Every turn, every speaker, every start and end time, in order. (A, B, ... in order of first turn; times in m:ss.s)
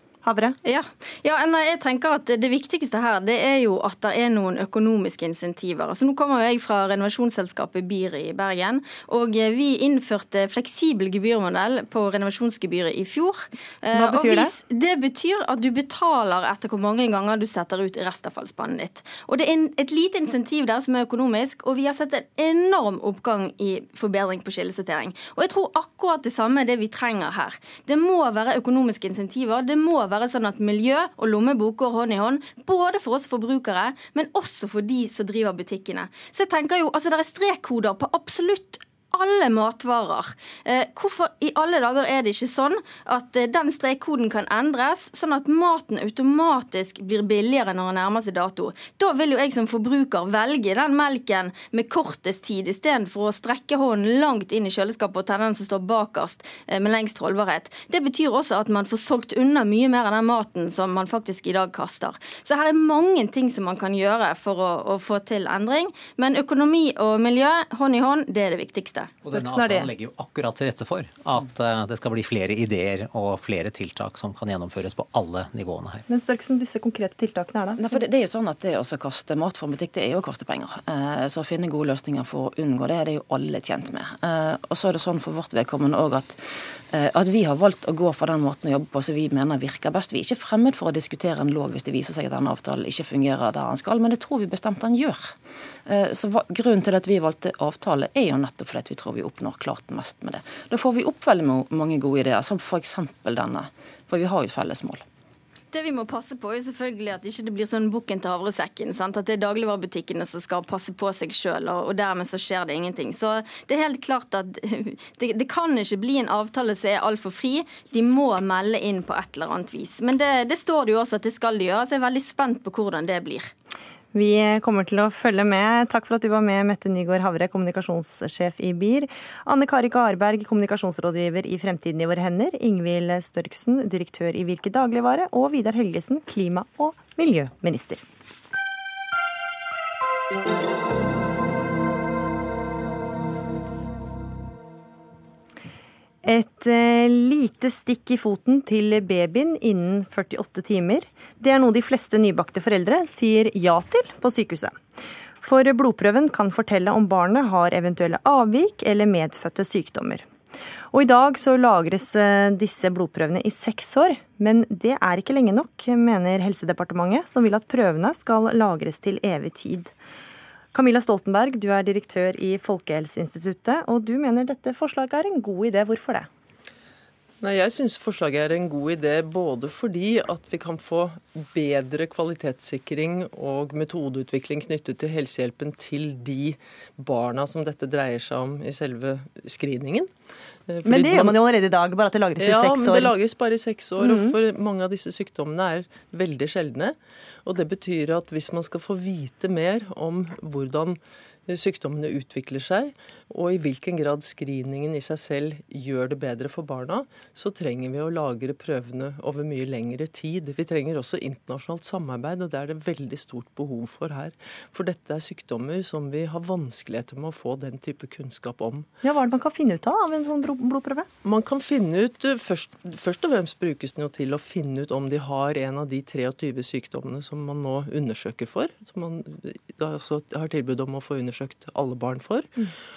0:00.2-0:00.6 A
0:00.6-1:09.1 B
0:13.9-0:14.5 A
1:09.2-1:16.0 C
1:09.3-1:09.9 A
1:16.1-1:17.9 A
1:17.8-1:45.0 D
1:45.7-2:03.5 B
2:04.1-2:18.0 A
2:26.2-2:34.8 A
2:35.4-2:40.2 A
2:40.9-2:49.9 A
2:50.7-2:56.3 A
2:57.4-3:10.1 E
3:10.7-3:11.4 E
3:10.8-3:13.1 A
3:12.4-3:38.9 E
3:14.0-3:14.4 A
3:39.0-3:41.1 A
3:41.2-3:52.7 E